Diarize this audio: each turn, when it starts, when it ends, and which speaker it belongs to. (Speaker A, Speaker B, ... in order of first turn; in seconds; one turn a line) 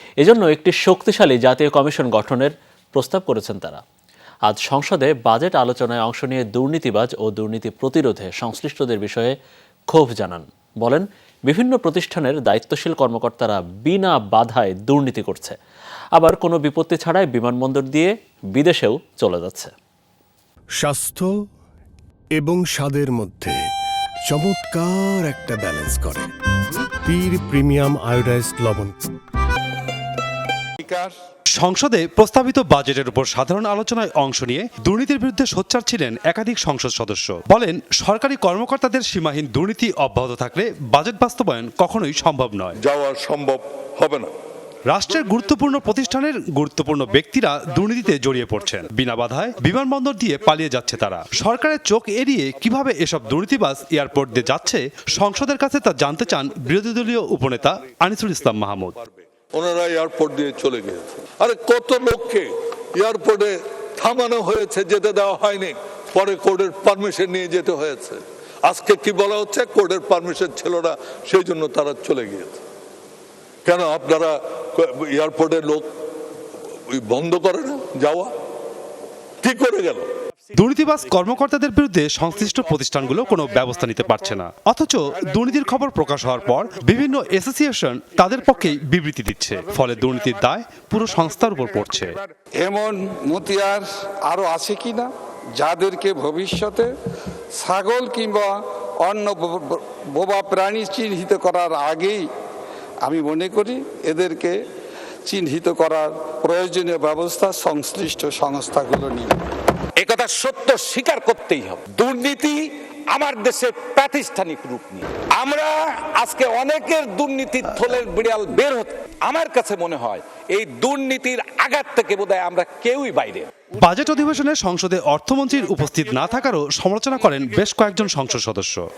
Speaker A: 0.2-3.8
Speaker A: 4.5-9.4
Speaker A: 9.9-15.6
Speaker A: 16.2-19.7
Speaker B: 20.8-21.4
Speaker B: 22.4-23.6
Speaker B: 24.3-29.0
Speaker C: 30.8-31.1
Speaker D: 31.5-42.8
Speaker E: 42.8-44.3
Speaker D: 44.9-59.0
Speaker E: 59.5-72.6
Speaker E: 73.7-75.9
Speaker E: 76.9-78.3
Speaker E: 79.4-80.0
Speaker D: 80.5-92.2
Speaker C: 92.6-96.9
Speaker C: 97.6-102.2
Speaker C: 103.0-104.6
Speaker C: 105.3-109.4
Speaker F: 110.0-123.5
Speaker D: 123.8-128.8